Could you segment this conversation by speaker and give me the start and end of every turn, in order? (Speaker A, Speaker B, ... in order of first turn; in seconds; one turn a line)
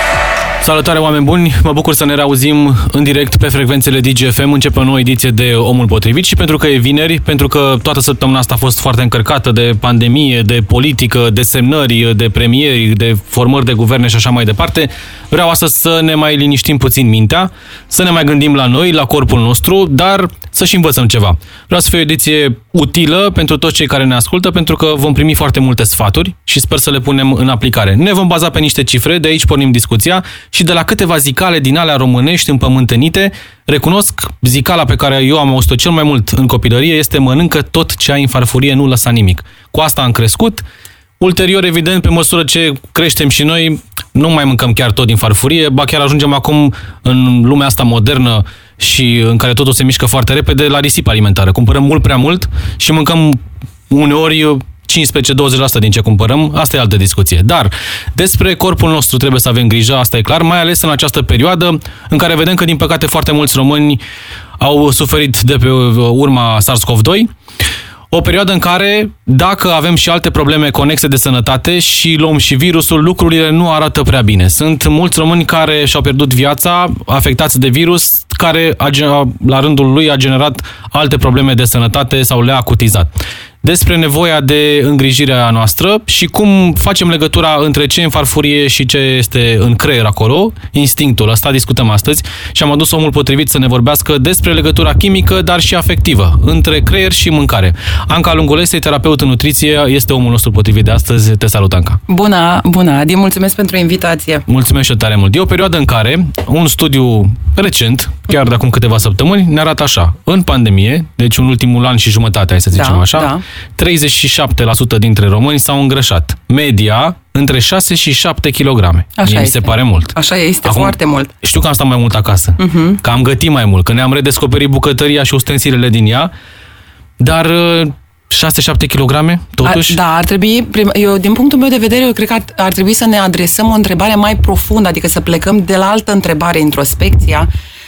Speaker A: 0.6-40.6
Speaker A: 41.2-64.0
Speaker A: 64.6-67.3
Speaker A: 68.1-83.1
Speaker A: 83.6-102.0
Speaker B: 102.1-104.5
Speaker A: 104.5-126.3
Speaker B: 112.7-113.4
Speaker B: 119.2-121.3
Speaker B: 122.6-123.0
Speaker A: 127.2-130.0
Speaker B: 129.6-137.5